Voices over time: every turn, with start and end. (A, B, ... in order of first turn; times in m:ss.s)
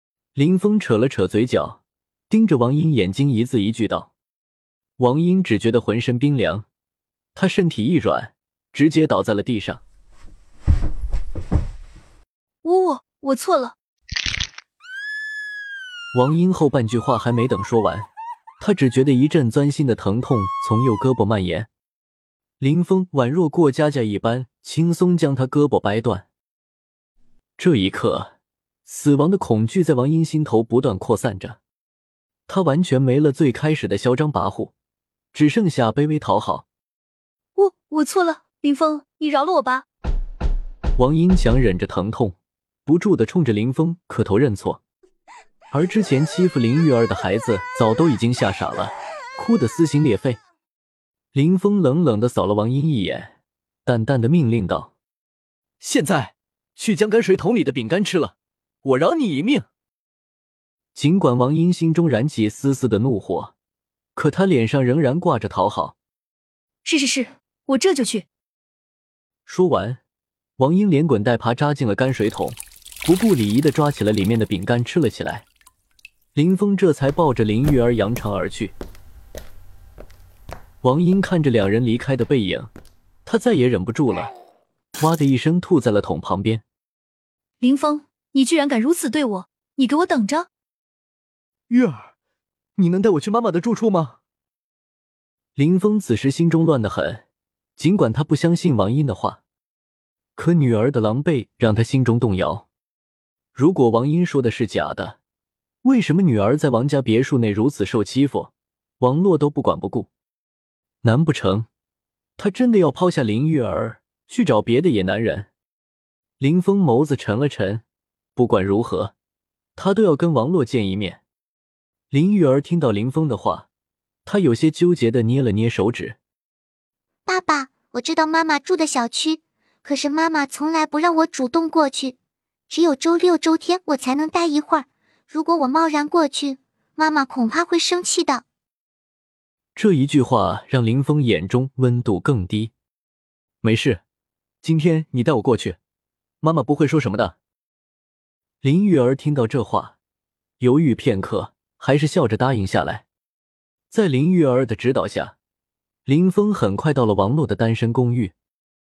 0:00.3-0:04.1 A
0:05.0-0:06.6 A
0:07.3-0:09.8 A
0:12.6-0:13.7 B
0:16.1-0:18.1 A
0:18.6-0:21.7 A
0:22.6-0:26.3 A
0:27.6-0:28.3 A
0:28.8-0:31.6 A
0:32.5-0:34.7 A
0:35.3-0:36.6 A
0:37.6-0:39.8 B
0:41.0-0:44.8 A
0:45.7-0:50.4 A
0:51.3-0:53.3 A
0:53.8-0:54.9 A
0:55.8-0:59.7 A
1:00.9-1:03.5 A
1:04.2-1:06.0 A
1:06.8-1:08.2 B
1:09.4-1:10.0 A
1:10.6-1:15.4 A
1:16.3-1:18.7 A
1:20.8-1:22.7 A
1:23.2-1:24.3 A
1:25.0-1:26.6 A
1:27.6-1:30.5 B
1:31.7-1:32.1 A
1:32.8-1:34.2 A
1:35.6-1:37.2 A
1:37.8-1:39.4 A
1:40.4-1:42.7 A
1:43.5-1:45.2 A
1:45.8-1:50.1 A
1:51.0-1:51.7 A
1:52.4-1:55.5 A
1:56.4-1:57.8 A
1:58.4-1:59.1 A
1:59.8-2:01.2 A
2:02.1-2:03.7 A
2:04.2-2:06.2 A
2:07.3-2:12.1 C
2:12.7-2:18.4 C
2:19.8-2:22.7 A
2:23.6-2:24.0 A
2:24.6-2:25.8 A
2:26.4-2:27.4 A
2:28.6-2:29.9 A
2:30.6-2:33.0 A
2:33.9-2:35.3 A
2:36.0-2:38.3 A